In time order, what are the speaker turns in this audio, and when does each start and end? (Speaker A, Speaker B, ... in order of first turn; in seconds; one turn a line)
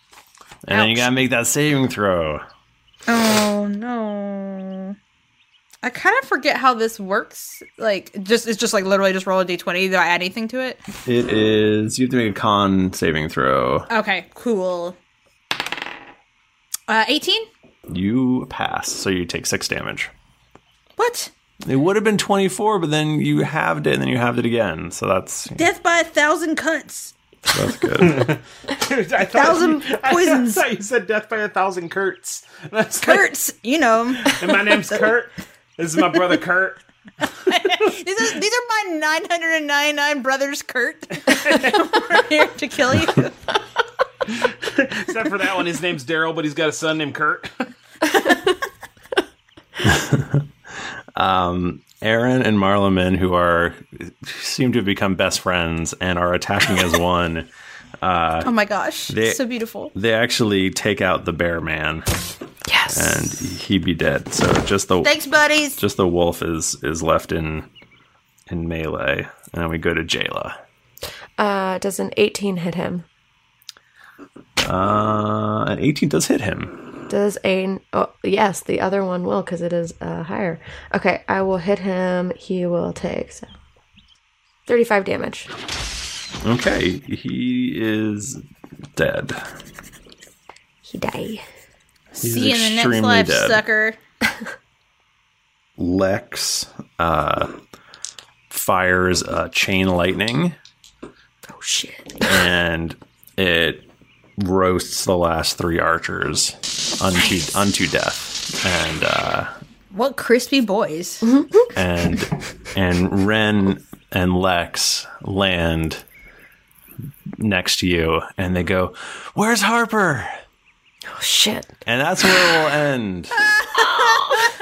Speaker A: 0.7-2.4
Speaker B: 0.7-1.1
Speaker B: 3.1-5.0
Speaker B: 5.8-10.8
Speaker A: 11.1-13.9
Speaker B: 13.9-15.0
Speaker B: 16.9-17.5
Speaker A: 17.9-20.1
Speaker B: 21.0-21.3
Speaker A: 21.6-25.6
Speaker B: 25.6-27.1
Speaker A: 27.5-28.3
Speaker C: 28.0-33.3
Speaker B: 29.3-30.6
Speaker B: 33.0-35.0
Speaker C: 34.2-36.8
Speaker B: 37.2-43.4
Speaker C: 41.5-41.7
Speaker C: 44.4-47.7
Speaker A: 49.8-50.4
Speaker A: 51.2-57.5
Speaker A: 58.0-58.5
Speaker B: 58.4-59.9
Speaker A: 59.1-59.4
Speaker A: 59.9-62.1
Speaker D: 62.7-63.2
Speaker A: 62.9-65.2
Speaker B: 65.0-65.8
Speaker A: 65.8-67.7
Speaker A: 68.5-70.6
Speaker D: 71.4-73.1
Speaker A: 74.6-77.0
Speaker D: 77.1-83.5
Speaker D: 84.7-85.5
Speaker A: 86.4-88.4
Speaker A: 89.0-89.5
Speaker D: 90.8-91.5
Speaker B: 92.2-94.0
Speaker A: 92.2-93.6
Speaker A: 95.8-97.5
Speaker A: 98.5-100.6
Speaker D: 101.5-102.4
Speaker A: 102.2-103.9
Speaker A: 104.4-109.5
Speaker B: 109.9-111.3
Speaker D: 111.2-111.7
Speaker A: 111.8-116.0
Speaker A: 117.4-120.3
Speaker D: 121.1-121.7
Speaker A: 121.9-123.5
Speaker D: 123.8-124.4